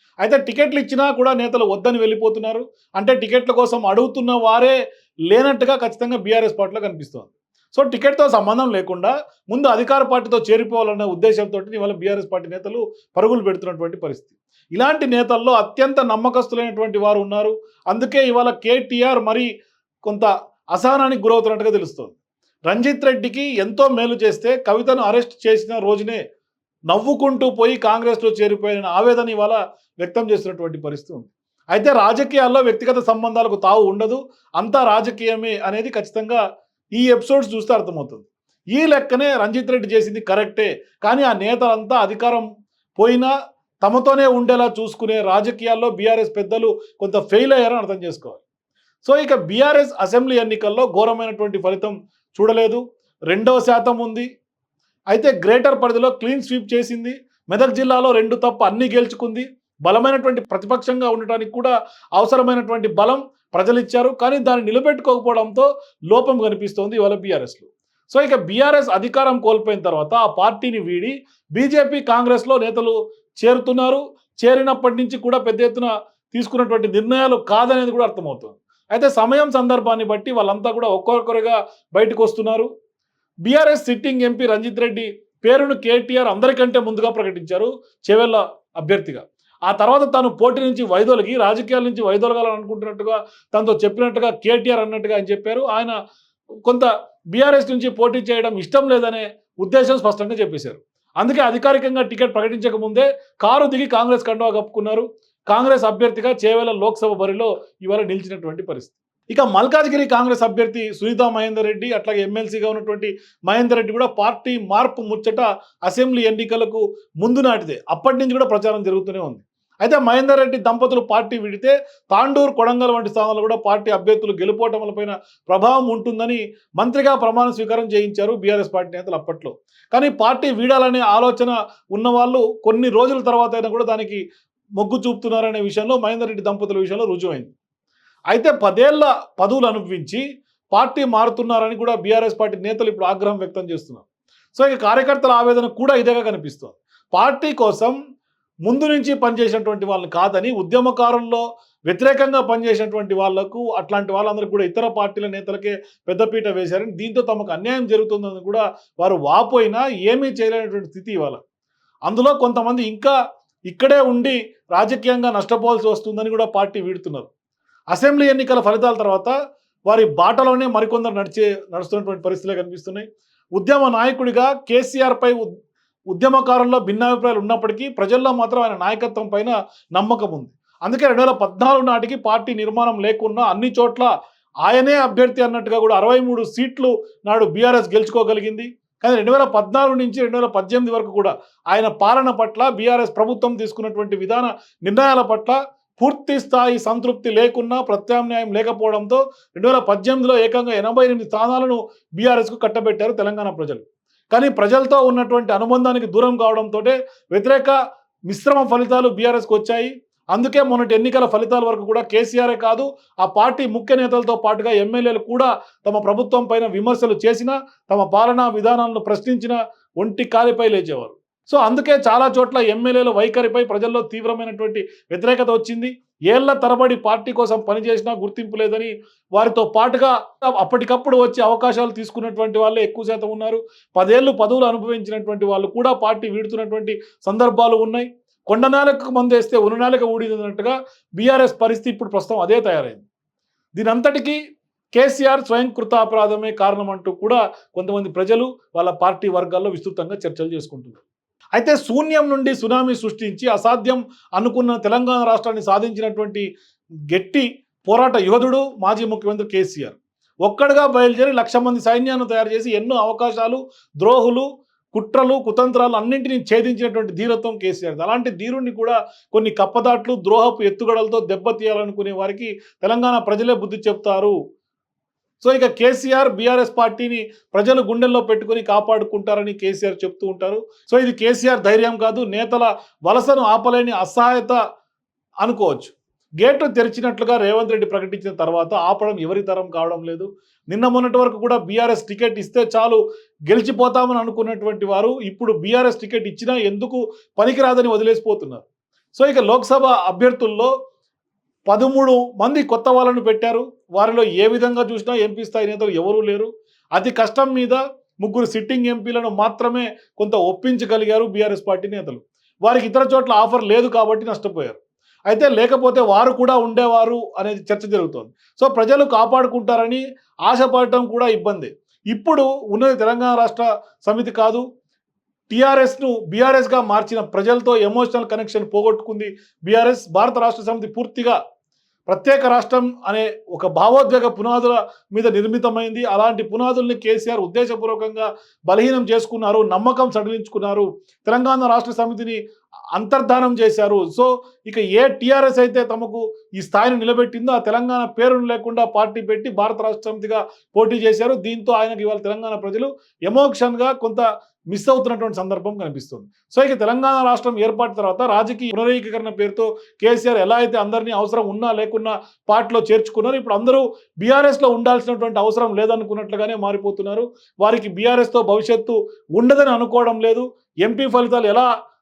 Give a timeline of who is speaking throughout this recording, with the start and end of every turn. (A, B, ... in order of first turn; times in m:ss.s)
0:00.2-0:04.8 A
0:05.3-0:19.5 A
0:20.1-0:22.2 A
0:22.7-0:26.2 A
0:26.9-0:36.4 A
0:37.0-0:43.3 A
0:43.8-0:48.4 A
0:49.0-0:54.3 A
0:55.1-1:22.7 A
1:23.4-1:35.9 A
1:36.6-2:14.2 A
2:14.8-2:17.5 A
2:18.3-2:28.0 A
2:28.7-2:41.4 A
2:42.1-2:43.1 A
2:43.7-2:47.3 A
2:47.9-2:49.3 A
2:49.9-2:53.1 A
2:53.6-2:55.4 A
2:56.1-3:04.1 A
3:04.6-3:27.8 A
3:28.3-4:03.0 A
4:03.8-4:04.4 A
4:05.0-4:11.0 A
4:11.6-4:16.5 A
4:17.1-4:34.4 A
4:35.4-4:44.6 A
4:45.4-5:00.7 A
5:01.7-5:24.6 A
5:25.5-5:31.4 A
5:32.1-5:42.4 A
5:43.0-6:11.7 A